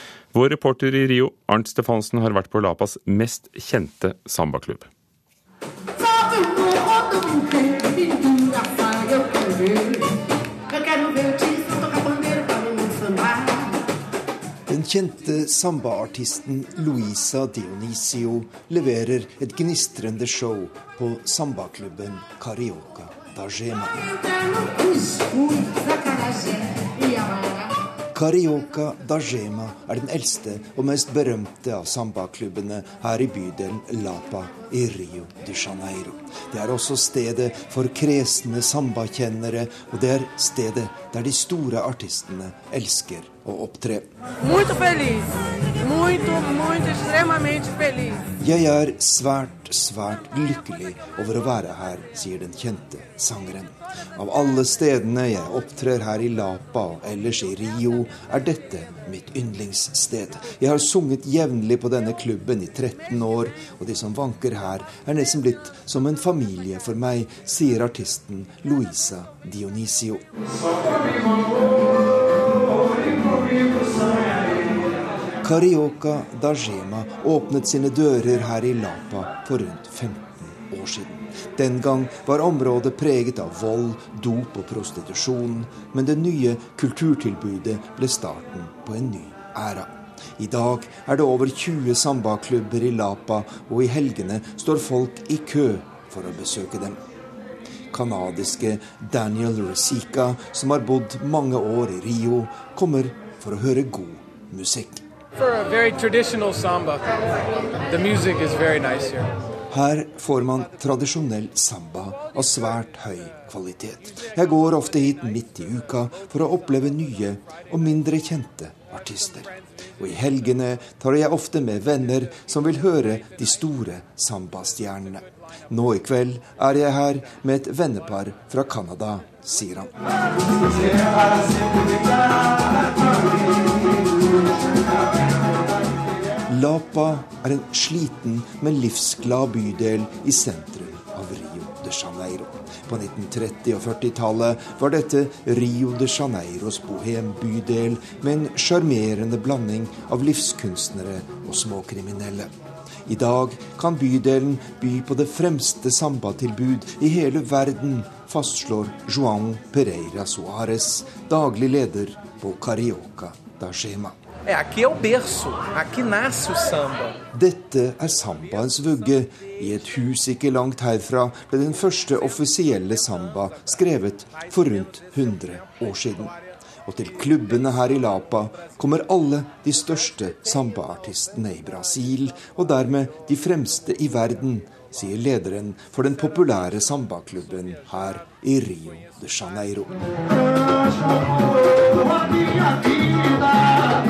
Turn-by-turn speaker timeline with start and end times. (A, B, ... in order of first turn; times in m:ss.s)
0:00.3-0:04.9 A
0:14.7-0:24.1 B
0:28.1-0:44.1 B
0:44.4-0:45.2 C
0:45.8-0:48.2 C
0:48.4-1:10.2 B
1:15.4-1:37.0 B
1:37.9-1:45.0 B
1:45.4-1:49.4 C
1:49.7-2:09.9 B
2:16.5-2:32.5 B
2:33.0-2:44.2 B
2:44.4-2:47.2 C
2:47.3-3:10.0 B